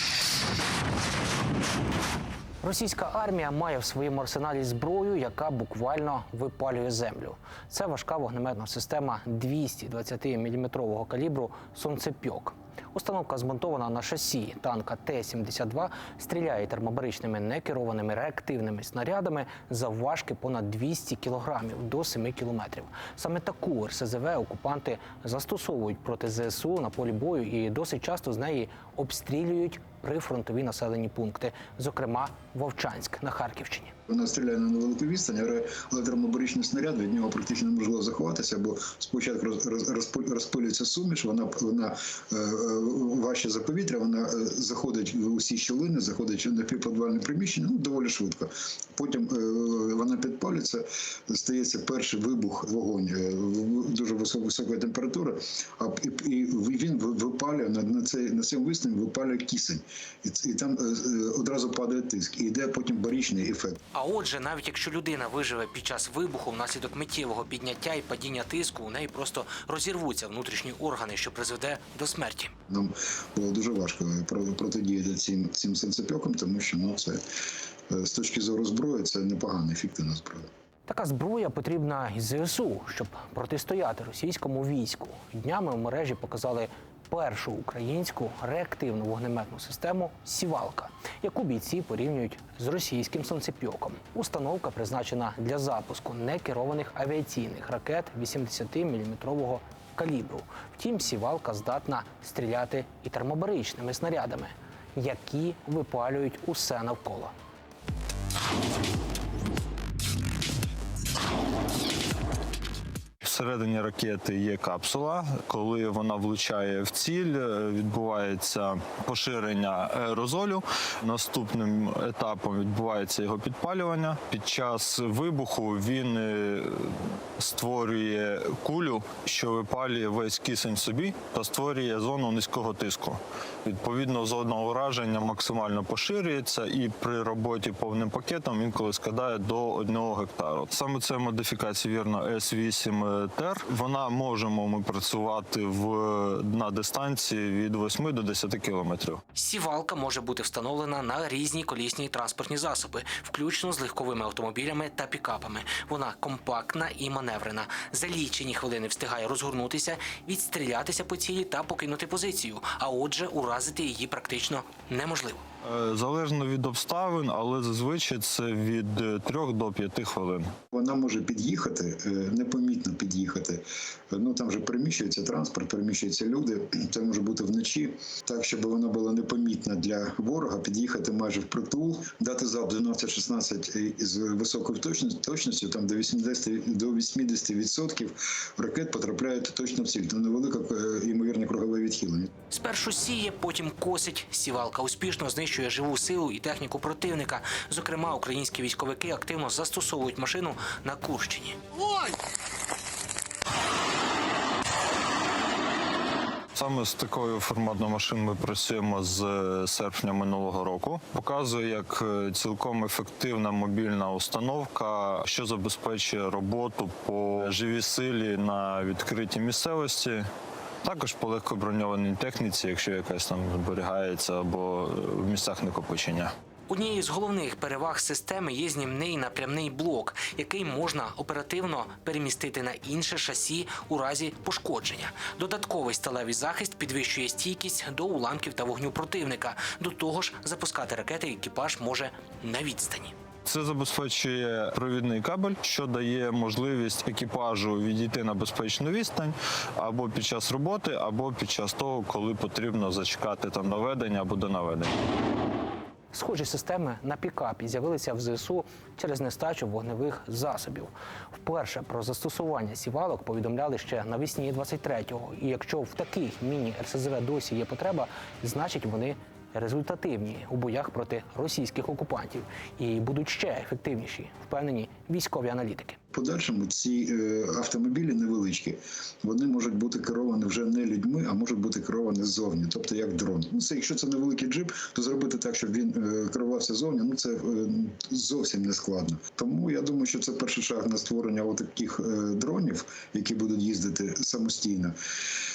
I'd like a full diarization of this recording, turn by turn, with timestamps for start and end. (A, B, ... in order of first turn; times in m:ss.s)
0:02.6-0:33.9 A
0:34.1-1:03.8 B
1:03.9-1:12.5 A
1:12.7-1:17.2 B
1:17.9-1:20.5 B
1:20.9-1:47.3 A
1:53.2-2:29.2 C
2:29.3-2:45.4 A
2:45.6-2:50.5 C
2:50.7-3:12.3 B
3:12.5-3:21.6 A
3:26.5-3:40.2 C
3:40.8-3:46.3 C
3:46.7-4:03.1 A
4:03.4-4:14.9 C
4:16.1-4:36.0 A
4:36.1-4:54.9 B